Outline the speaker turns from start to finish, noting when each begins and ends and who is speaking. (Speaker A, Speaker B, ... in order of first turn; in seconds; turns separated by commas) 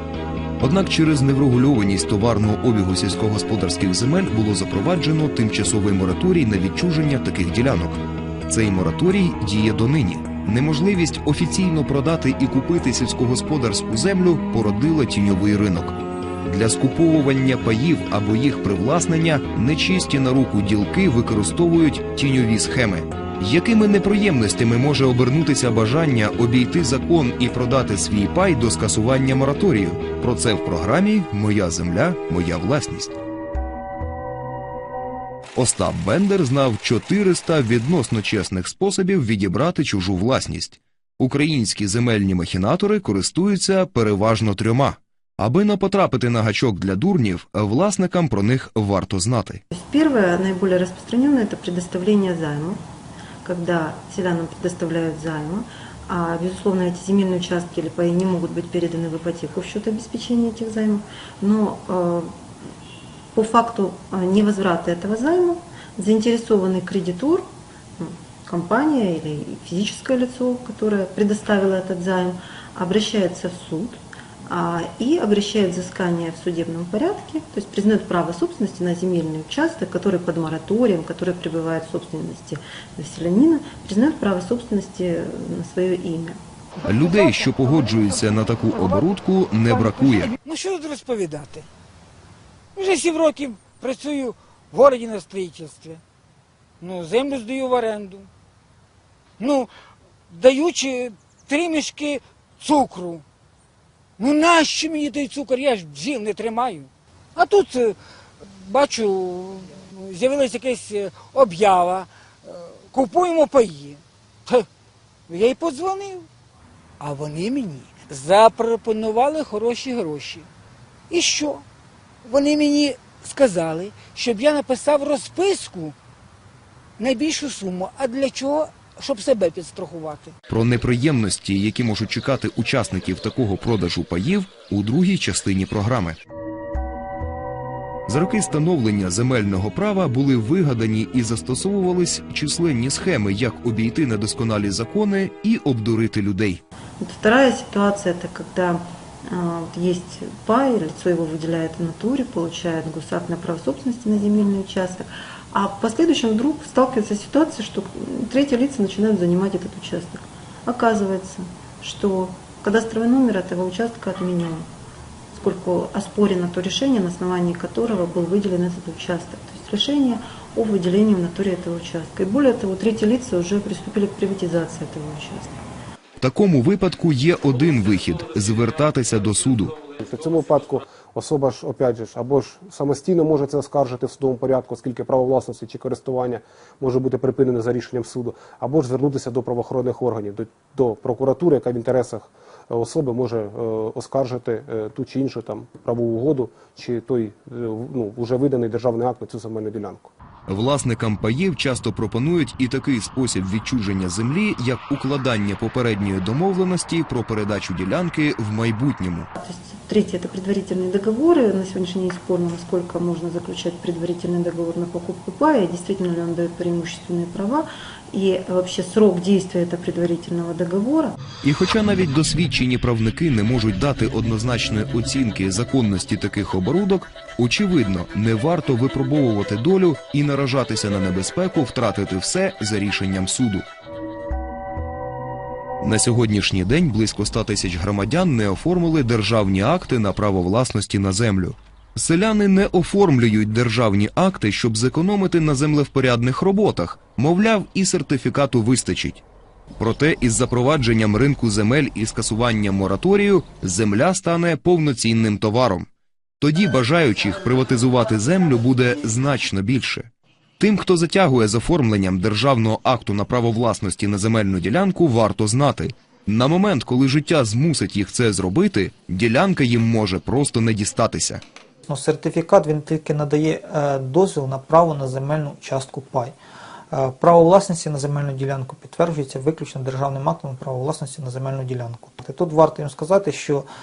Speaker A: 0.6-33.2, Speaker A: 35.5-49.6, Speaker B: 49.7-52.8, Speaker B: 53.4-62.3, Speaker B: 63.3-67.5, Speaker B: 68.0-86.4, Speaker A: 86.8-90.3, Speaker C: 90.3-91.7, Speaker C: 92.7-96.0, Speaker C: 96.8-98.3, Speaker C: 99.4-99.7, Speaker C: 100.3-103.2, Speaker C: 104.2-114.7, Speaker C: 115.3-116.3, Speaker C: 117.0-120.5, Speaker C: 121.1-121.6, Speaker C: 122.2-126.0, Speaker C: 127.0-130.3, Speaker A: 130.5-136.2, Speaker A: 138.1-146.6, Speaker B: 147.0-164.7, Speaker B: 165.3-175.6, Speaker A: 176.2-179.8, Speaker D: 180.0-200.1, Speaker A: 200.5-209.3, Speaker B: 209.4-221.2, Speaker A: 221.4-233.7, Speaker A: 235.8-249.2, Speaker A: 249.8-255.9, Speaker A: 256.4-271.4, Speaker E: 271.9-276.3, Speaker E: 276.9-283.6